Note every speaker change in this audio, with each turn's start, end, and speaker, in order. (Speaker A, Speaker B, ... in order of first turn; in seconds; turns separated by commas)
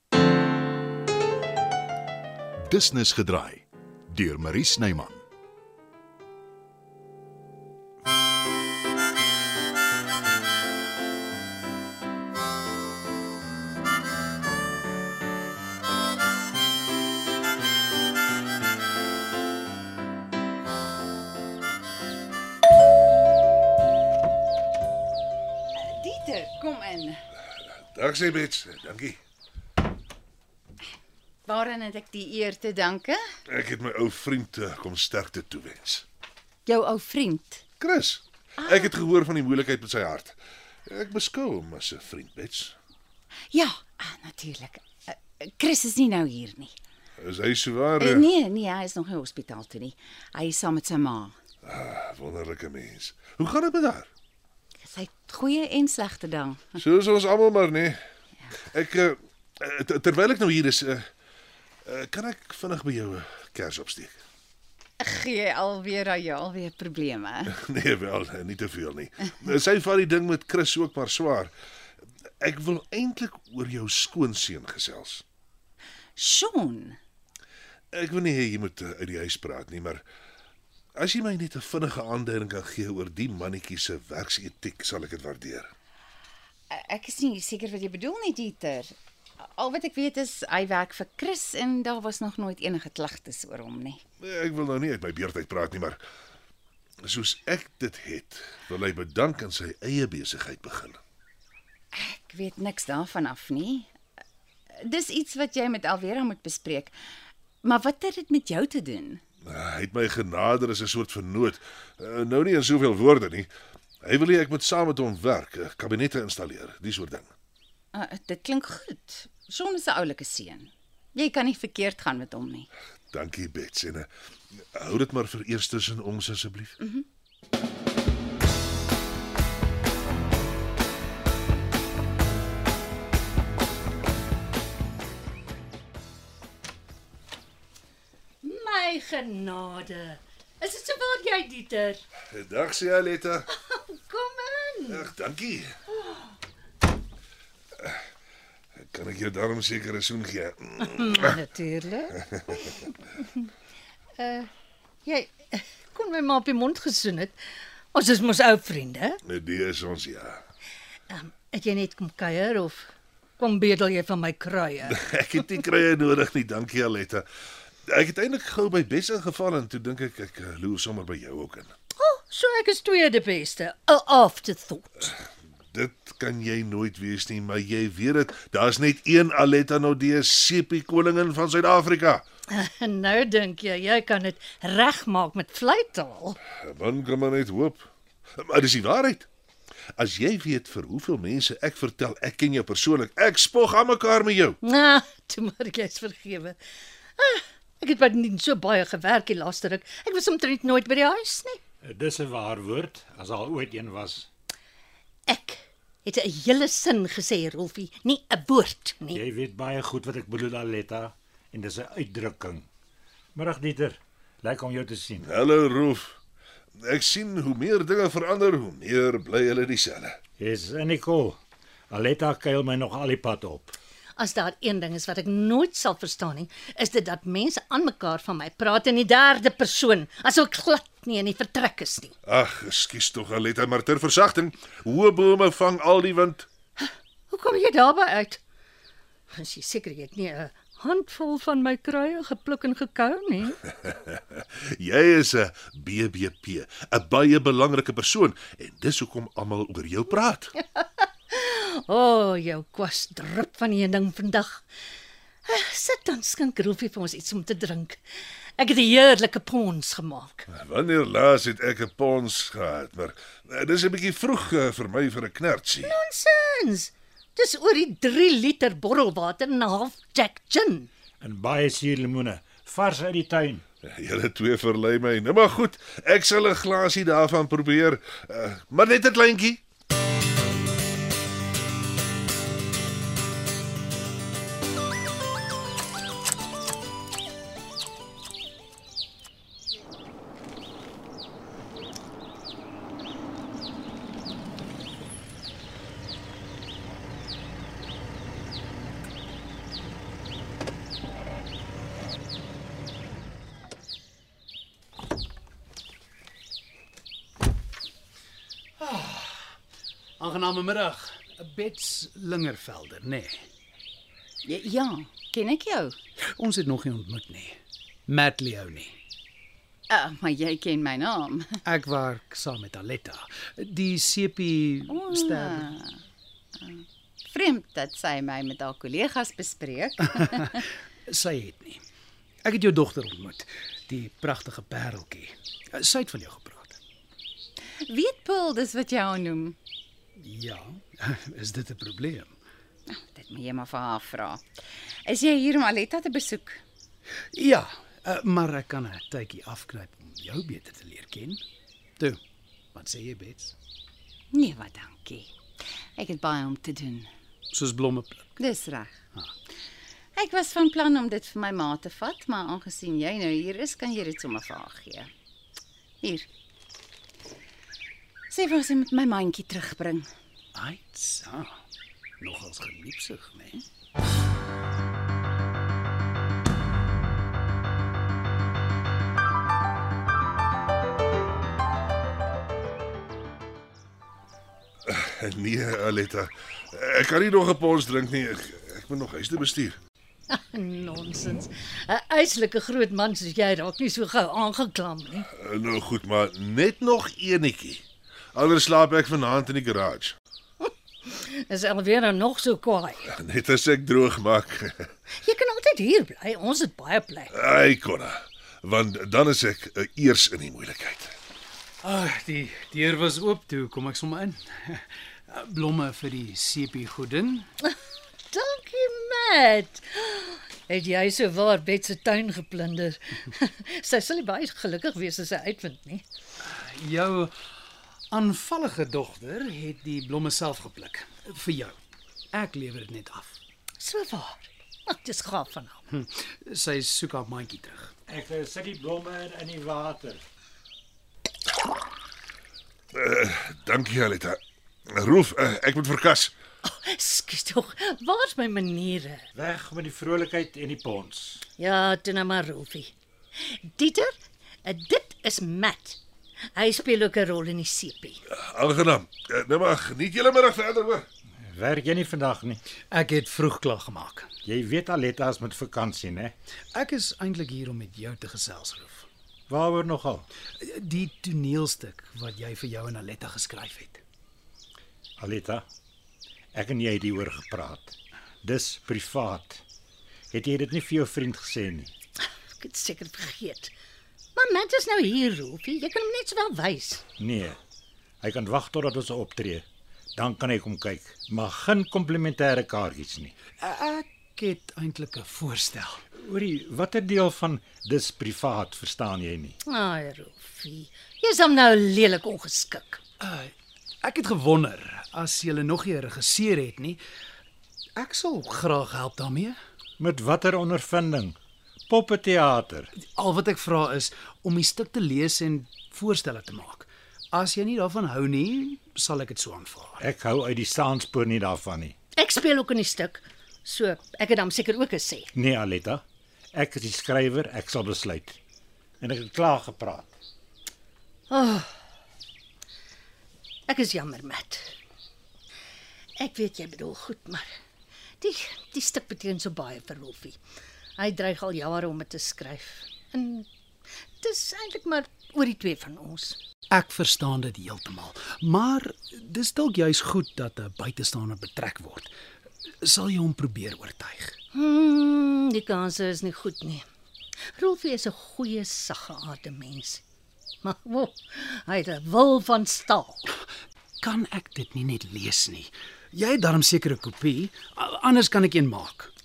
Speaker A: 2.7-5.2, Speaker B: 25.7-27.2, Speaker C: 27.9-29.2, Speaker B: 31.5-33.2, Speaker C: 33.5-36.0, Speaker B: 36.7-37.6, Speaker C: 37.8-42.7, Speaker B: 38.6-38.9, Speaker B: 43.5-46.7, Speaker C: 47.2-48.2, Speaker B: 48.0-51.3, Speaker C: 51.6-54.1, Speaker B: 54.8-56.8, Speaker C: 56.8-58.0, Speaker C: 58.7-61.0, Speaker C: 61.9-64.1, Speaker B: 65.0-67.5, Speaker C: 67.5-71.5, Speaker C: 72.4-75.2, Speaker B: 76.2-77.0, Speaker C: 77.9-80.0, Speaker C: 81.0-85.7, Speaker B: 86.7-94.0, Speaker C: 94.2-96.0, Speaker C: 97.0-101.0, Speaker B: 101.9-103.9, Speaker B: 104.8-106.9, Speaker B: 107.6-109.2, Speaker C: 109.5-113.5, Speaker C: 114.0-117.3, Speaker B: 117.9-122.7, Speaker C: 123.1-124.1, Speaker C: 124.7-126.8, Speaker D: 138.4-142.0, Speaker C: 142.3-143.5, Speaker D: 143.5-145.0, Speaker C: 144.8-145.8, Speaker C: 148.9-151.2, Speaker D: 150.9-152.8, Speaker D: 154.2-154.5, Speaker D: 155.0-157.4, Speaker D: 157.9-159.2, Speaker C: 159.2-160.4, Speaker D: 161.1-164.9, Speaker C: 164.8-167.2, Speaker C: 167.9-171.7, Speaker D: 172.0-175.1, Speaker C: 175.7-182.2, Speaker D: 182.5-186.4, Speaker C: 186.4-189.3, Speaker C: 190.0-194.6, Speaker D: 194.6-196.6, Speaker D: 197.2-201.6, Speaker E: 201.8-204.3, Speaker D: 205.3-209.2, Speaker E: 209.1-212.7, Speaker E: 213.3-215.3, Speaker C: 215.2-216.2, Speaker C: 216.8-220.2, Speaker E: 220.4-221.4, Speaker E: 221.9-223.8, Speaker D: 224.2-232.2, Speaker C: 232.2-236.5, Speaker D: 237.3-238.4, Speaker D: 239.3-243.6, Speaker C: 243.8-250.5, Speaker D: 250.7-254.6, Speaker D: 255.4-258.0, Speaker D: 258.6-260.5, Speaker C: 260.5-265.9, Speaker D: 265.8-270.9, Speaker E: 271.2-273.6, Speaker C: 273.8-279.6, Speaker F: 308.8-309.5, Speaker F: 310.2-313.4, Speaker B: 314.4-315.9, Speaker F: 316.2-318.9, Speaker B: 319.9-321.5, Speaker F: 321.6-325.7, Speaker B: 324.9-325.9, Speaker B: 326.6-330.6, Speaker F: 330.5-331.8, Speaker F: 332.4-336.8, Speaker B: 337.8-339.6, Speaker F: 340.2-342.4, Speaker B: 342.9-344.4, Speaker B: 345.1-346.6, Speaker F: 347.3-351.4, Speaker F: 352.7-353.5, Speaker B: 354.3-355.3, Speaker B: 356.0-357.1, Speaker F: 357.5-358.2, Speaker B: 358.4-358.9, Speaker B: 360.1-365.1, Speaker B: 366.0-366.3, Speaker B: 368.3-370.1, Speaker F: 370.5-371.6, Speaker F: 372.2-373.6, Speaker C: 384.9-389.8, Speaker D: 390.3-395.2, Speaker C: 395.3-397.8, Speaker C: 398.3-400.1, Speaker D: 400.6-403.1, Speaker C: 403.1-404.9, Speaker D: 405.2-407.3, Speaker C: 407.3-411.1, Speaker F: 411.8-417.5, Speaker D: 418.3-426.0, Speaker F: 426.4-427.3, Speaker F: 428.1-431.8, Speaker F: 432.3-433.4, Speaker D: 433.8-435.8, Speaker F: 435.9-437.9, Speaker E: 438.1-440.2, Speaker C: 442.9-444.4, Speaker C: 444.9-446.3, Speaker D: 446.6-449.2, Speaker E: 449.3-451.4, Speaker D: 451.6-452.9, Speaker D: 453.5-456.0, Speaker D: 456.5-458.2, Speaker C: 458.3-461.1, Speaker E: 461.4-462.6, Speaker F: 462.9-464.3, Speaker E: 464.4-466.3, Speaker F: 466.7-469.1, Speaker E: 469.5-470.3, Speaker F: 470.6-474.0, Speaker E: 475.2-475.6, Speaker E: 476.5-479.6, Speaker E: 480.3-481.9, Speaker D: 482.6-483.7, Speaker D: 484.4-487.0, Speaker E: 487.1-487.6, Speaker E: 488.2-489.6, Speaker E: 490.1-493.3, Speaker F: 493.6-496.0, Speaker E: 496.2-499.6, Speaker D: 499.6-503.0, Speaker F: 503.2-507.0, Speaker F: 507.9-509.6, Speaker E: 510.0-511.4, Speaker E: 511.9-512.9, Speaker F: 513.0-520.0, Speaker E: 520.0-521.9, Speaker D: 522.1-525.3, Speaker E: 525.3-528.4, Speaker E: 529.0-530.1, Speaker D: 531.3-531.7, Speaker D: 533.7-534.7, Speaker D: 536.2-537.5, Speaker D: 538.2-540.4, Speaker D: 541.0-543.5, Speaker D: 544.2-546.4, Speaker F: 546.7-552.1, Speaker F: 552.8-554.4, Speaker D: 554.5-556.9, Speaker D: 557.5-560.0, Speaker D: 560.6-563.2, Speaker F: 564.0-569.1